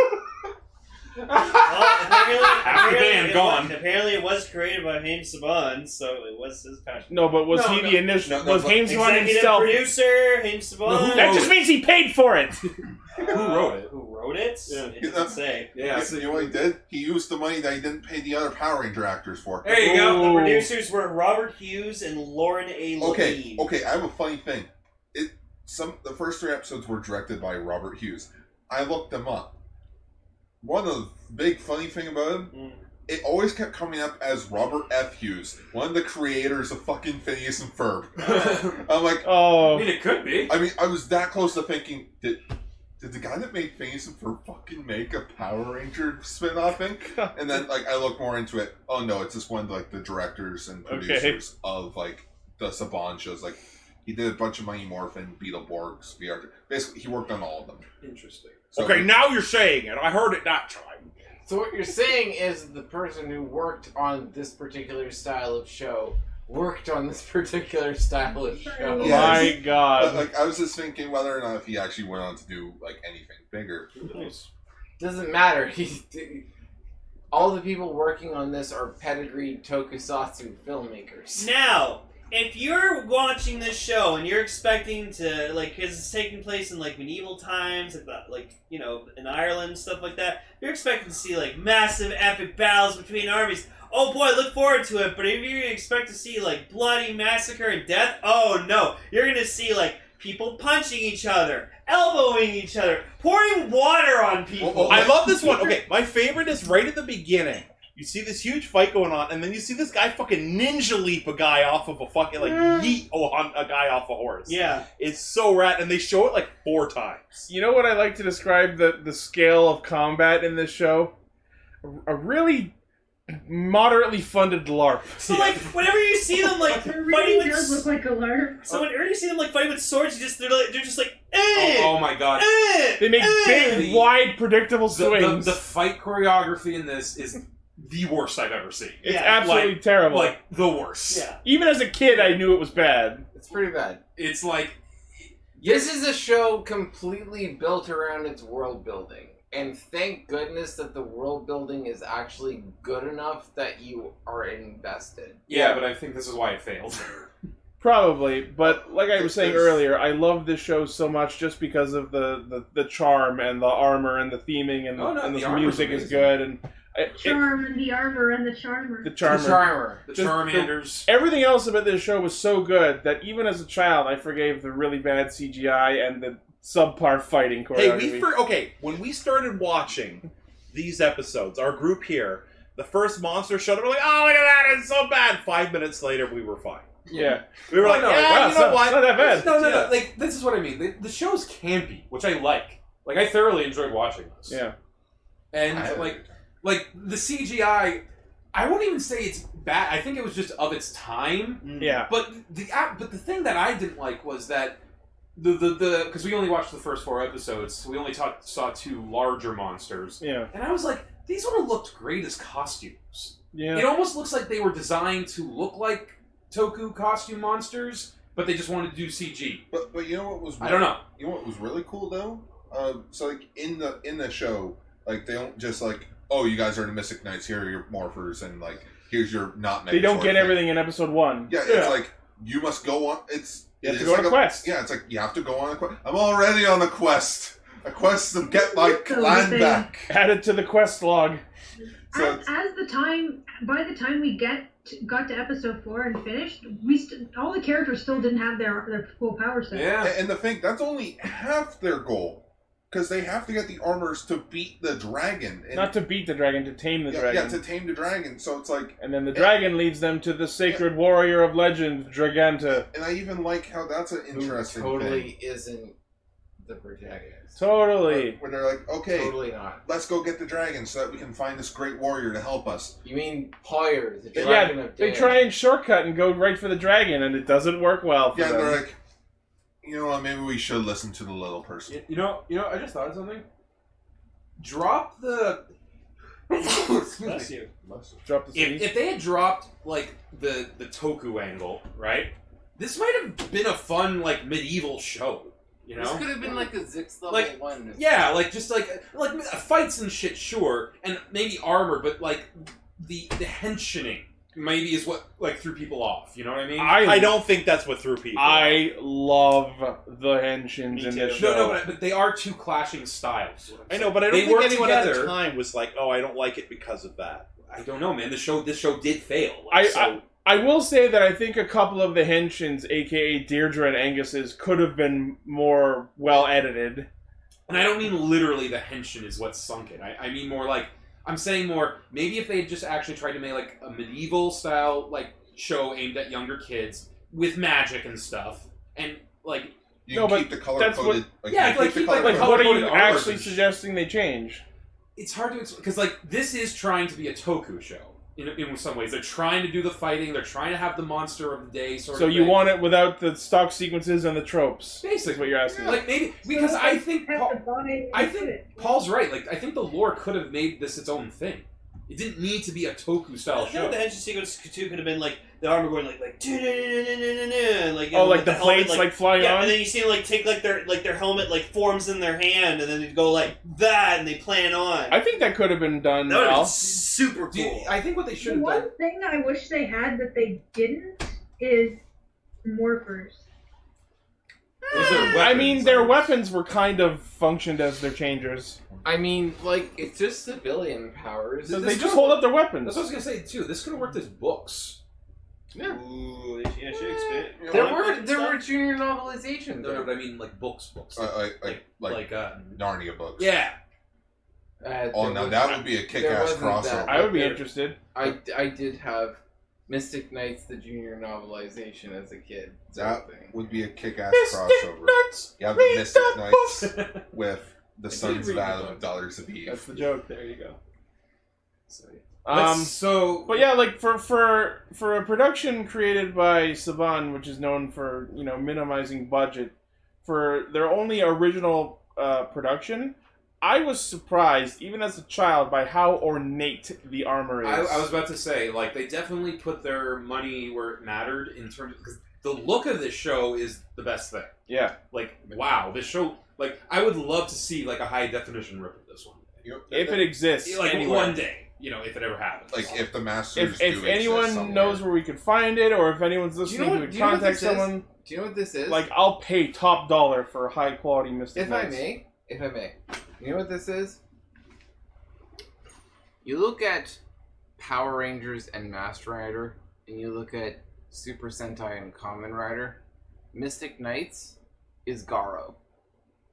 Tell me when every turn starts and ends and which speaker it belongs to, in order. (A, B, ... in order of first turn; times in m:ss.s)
0:01.3-0:03.8 A
0:01.6-0:08.1 B
0:07.1-0:09.9 C
0:08.2-0:08.9 D
0:08.8-0:11.5 B
0:10.8-0:11.5 A
0:11.1-0:12.6 C
0:13.1-0:15.8 B
0:13.2-0:13.9 A
0:14.7-0:15.0 A
0:15.0-0:19.9 D
0:15.7-0:16.6 A
0:19.6-0:23.7 B
0:19.7-0:20.2 A
0:19.8-0:20.7 C
0:23.0-0:29.6 D
0:30.6-0:32.5 D
0:32.5-0:32.8 B
0:33.1-0:39.3 D
0:38.2-0:38.9 A
0:39.2-0:39.9 C
0:39.6-0:40.6 A
0:40.4-0:42.4 D
0:43.0-0:57.8 D
0:50.9-0:51.4 C
0:58.0-0:58.6 A
0:58.7-0:59.1 D
0:58.7-1:01.1 E
1:01.4-1:09.5 F
1:08.2-1:09.6 G
1:09.0-1:10.3 C
1:09.0-1:14.1 D
1:14.0-1:14.5 A
1:15.0-1:16.4 F
1:17.3-1:21.5 F
1:21.3-1:45.7 B
1:44.6-1:45.5 D
1:44.9-1:57.5 E
1:52.4-1:53.0 B
1:54.4-1:54.9 B
1:57.5-2:01.1 C
2:01.8-2:02.7 C
2:03.3-2:05.2 C
2:05.2-2:07.9 B
2:05.2-2:05.8 A
2:06.6-2:08.8 G
2:08.6-2:13.9 B
2:11.5-2:12.5 A
2:13.0-2:15.6 C
2:13.6-2:14.1 A
2:14.9-2:21.3 A
2:19.0-2:19.4 B
2:19.0-2:20.4 C
2:21.1-2:21.4 B
2:21.4-2:23.2 C
2:23.3-2:24.0 F
2:24.2-2:24.8 A
2:25.6-2:35.4 F
2:35.5-2:37.3 A
2:35.5-2:35.8 C
2:37.8-2:47.4 C
2:38.6-2:39.8 D
2:45.0-2:46.4 A
2:47.1-2:49.2 G
2:49.0-2:58.3 C
2:49.2-2:50.1 F
2:50.1-2:51.1 A
2:57.7-3:09.9 E
3:07.1-3:07.4 C
3:07.7-3:08.4 A
3:08.1-3:09.5 C
3:09.1-3:14.6 A
3:14.5-3:14.7 C
3:15.5-3:24.8 A
3:15.6-3:16.3 D
3:21.6-3:22.0 B
3:21.8-3:22.1 C
3:25.4-3:39.6 A
3:30.2-3:30.5 C
3:33.5-3:33.9 C
3:39.7-3:50.7 D
3:40.6-3:41.0 A
3:49.9-3:51.5 C
3:51.5-4:00.1 D
3:51.6-3:52.0 A
3:53.8-3:54.7 C
3:58.4-3:59.9 G
4:00.1-4:01.4 C
4:02.1-4:10.0 G
4:02.1-4:02.5 D
4:09.7-4:10.1 A
4:10.0-4:15.9 D
4:15.7-4:17.6 C
4:17.1-4:19.5 D
4:19.0-4:22.9 C
4:22.9-4:25.3 D
4:24.3-4:25.9 F
4:26.6-4:27.6 F
4:27.6-4:28.4 C
4:28.0-4:33.0 D
4:29.1-4:29.8 F
4:33.0-4:35.5 F
4:34.4-4:38.8 C
4:38.3-4:39.0 D
4:39.8-4:42.0 D
4:41.9-4:43.4 A
4:44.6-4:45.7 A
4:46.5-4:47.5 A
4:47.0-4:47.7 B
4:47.8-4:48.2 D
4:48.2-4:48.9 C
4:48.5-4:56.5 A
4:55.9-4:58.2 F
4:57.3-5:07.1 A
5:06.8-5:08.8 E
5:06.9-5:07.4 C
5:08.3-5:11.8 C
5:10.9-5:11.5 B
5:11.4-5:15.4 A
5:13.9-5:17.5 E
5:17.7-5:20.2 A
5:19.7-5:27.1 C
5:27.7-5:39.7 A
5:40.0-5:43.3 D
5:40.1-5:41.2 C
5:41.5-5:43.6 A
5:42.1-5:44.6 C
5:45.2-5:52.7 A
5:52.1-5:56.0 C
5:55.0-5:57.6 A
5:56.3-5:58.9 G
5:58.1-6:04.0 A
6:03.5-6:15.2 B
6:08.1-6:09.8 C
6:15.1-6:16.8 C
6:16.2-6:17.9 B
6:17.5-6:18.9 A
6:18.4-6:22.0 G
6:22.6-6:23.4 G
6:24.9-6:25.3 F
6:24.9-6:26.3 A
6:25.2-6:28.8 C
6:29.0-6:32.2 F
6:31.7-6:33.1 C
6:31.7-6:35.0 A
6:35.8-6:38.6 B
6:37.0-6:40.1 F
6:37.6-6:37.9 D
6:39.8-6:43.8 A
6:41.2-6:43.6 D
6:44.8-6:53.5 F
6:45.1-6:47.3 D
6:47.0-6:48.0 C
6:52.9-6:59.8 D
6:54.3-6:56.6 C
6:56.7-6:57.2 A
6:58.1-6:59.0 A
6:59.6-7:00.8 C
7:01.9-7:03.6 A
7:02.4-7:18.1 C
7:17.6-7:24.5 A
7:24.7-7:24.9 C
7:25.1-7:29.5 A
7:29.6-7:30.3 D
7:29.9-7:31.4 C
7:30.6-7:33.0 A
7:32.7-7:35.0 D
7:33.5-7:38.0 C
7:36.6-7:39.0 F
7:38.9-7:42.1 C
7:41.5-7:44.2 F
7:46.4-7:47.2 F
7:47.8-7:53.0 F
7:53.5-7:55.8 F